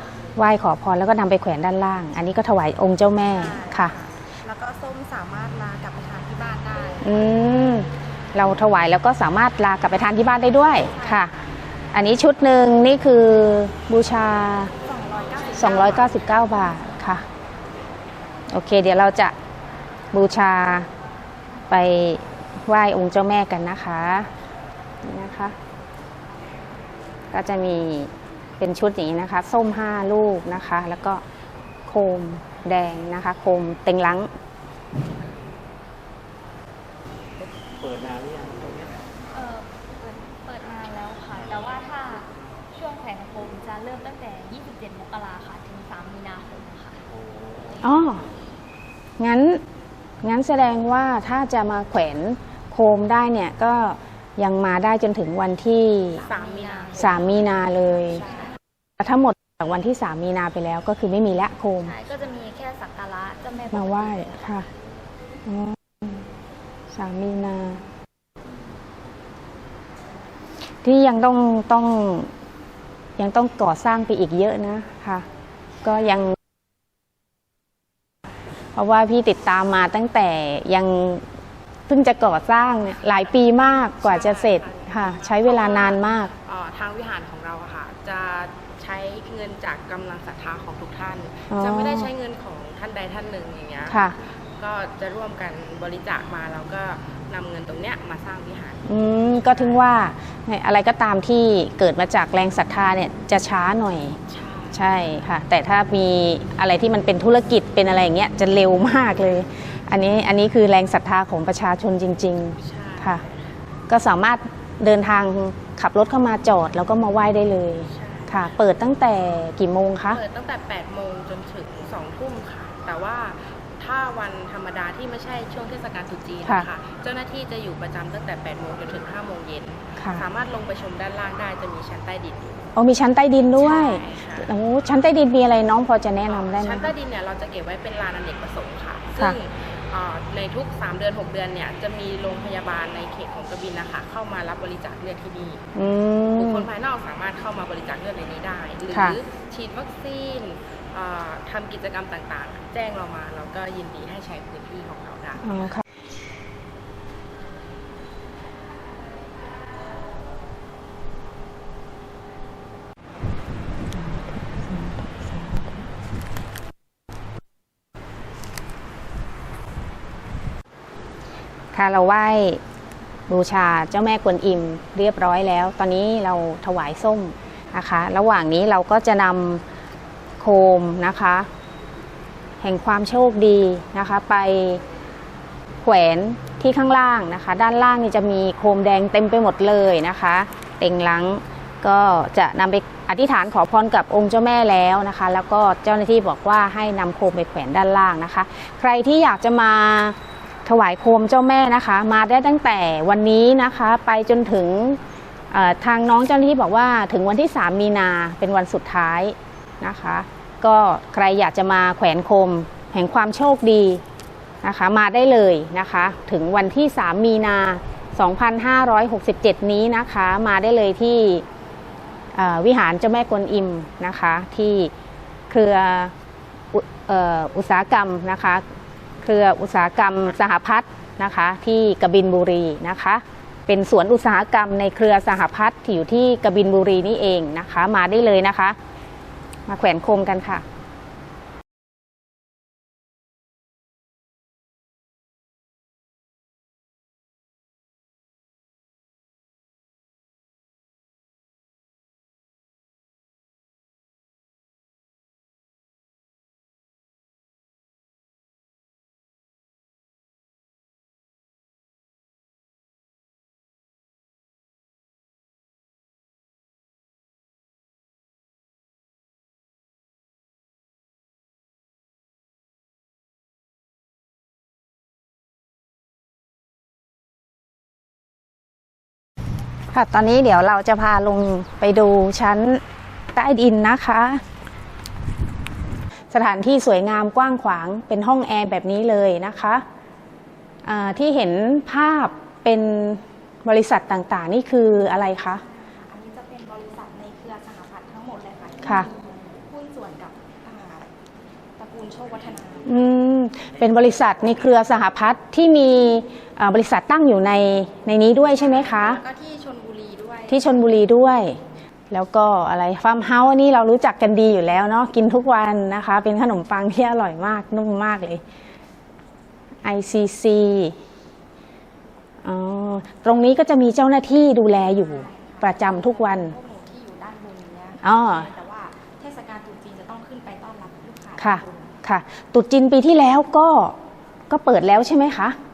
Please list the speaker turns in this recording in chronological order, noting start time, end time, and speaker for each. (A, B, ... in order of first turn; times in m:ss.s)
0:00.4-0:03.9 A
0:03.3-0:07.3 B
0:07.0-0:11.4 A
0:10.9-0:11.3 B
0:11.9-0:14.7 A
0:14.8-0:17.0 B
0:15.6-0:17.2 A
0:18.5-0:19.4 A
0:20.1-0:20.9 A
0:21.7-0:24.3 A
0:25.0-0:25.6 A
0:27.3-0:31.2 A
0:31.9-0:34.3 A
0:37.4-0:39.0 C
0:39.3-0:47.0 D
0:41.4-0:41.8 C
0:47.1-0:47.9 C
0:47.8-0:48.3 A
0:49.2-0:49.6 A
0:50.2-0:56.3 A
0:56.2-0:57.2 E
0:56.3-0:57.2 D
0:56.4-0:57.0 B
0:57.0-0:58.2 A
0:59.0-1:02.0 A
1:01.8-1:04.4 D
1:03.7-1:04.7 A
1:05.5-1:06.3 A
1:06.9-1:07.8 A
1:10.8-1:12.3 A
1:13.2-1:15.3 A
1:15.8-1:16.4 A
1:18.8-1:21.2 A
1:21.9-1:26.3 A
1:23.3-1:39.8 E
1:31.5-1:32.1 A
1:33.9-1:34.2 A
1:38.9-1:44.2 A
1:44.3-1:44.8 E
1:44.7-1:53.2 A
1:52.6-1:53.4 E
1:53.9-2:00.2 A
1:57.9-1:58.4 E
2:00.1-2:12.7 E
2:10.0-2:10.2 A
2:12.8-2:16.9 A
2:13.5-2:14.5 E
2:16.2-2:25.7 E
2:25.8-2:26.7 A
2:26.4-2:35.8 E
2:28.9-2:29.2 A
2:35.4-2:35.8 A
2:43.9-2:45.9 A
2:51.7-2:52.6 A
2:53.3-2:59.6 A
3:00.4-3:01.5 A
3:02.6-3:04.8 A
3:05.8-3:25.0 A
3:25.5-3:34.0 A
3:34.6-3:41.4 A
3:42.3-3:44.9 A
3:45.5-3:46.1 A
3:46.7-3:48.6 A
3:49.2-3:58.8 A
3:59.7-4:00.6 A
4:39.9-4:42.8 A
4:43.3-4:44.4 A
4:46.3-4:49.8 A
4:50.8-4:55.6 A
4:55.5-5:01.1 B
4:58.8-4:59.1 A
5:01.8-5:03.0 B
5:02.9-5:09.2 A
5:03.9-5:04.4 C
5:08.5-5:10.9 B
5:10.5-5:11.6 A
5:12.1-5:18.4 A
5:19.8-5:21.0 A
5:22.4-5:26.6 A
5:24.8-5:32.0 B
5:28.0-5:28.5 A
5:31.4-5:34.0 A
5:34.5-5:35.6 A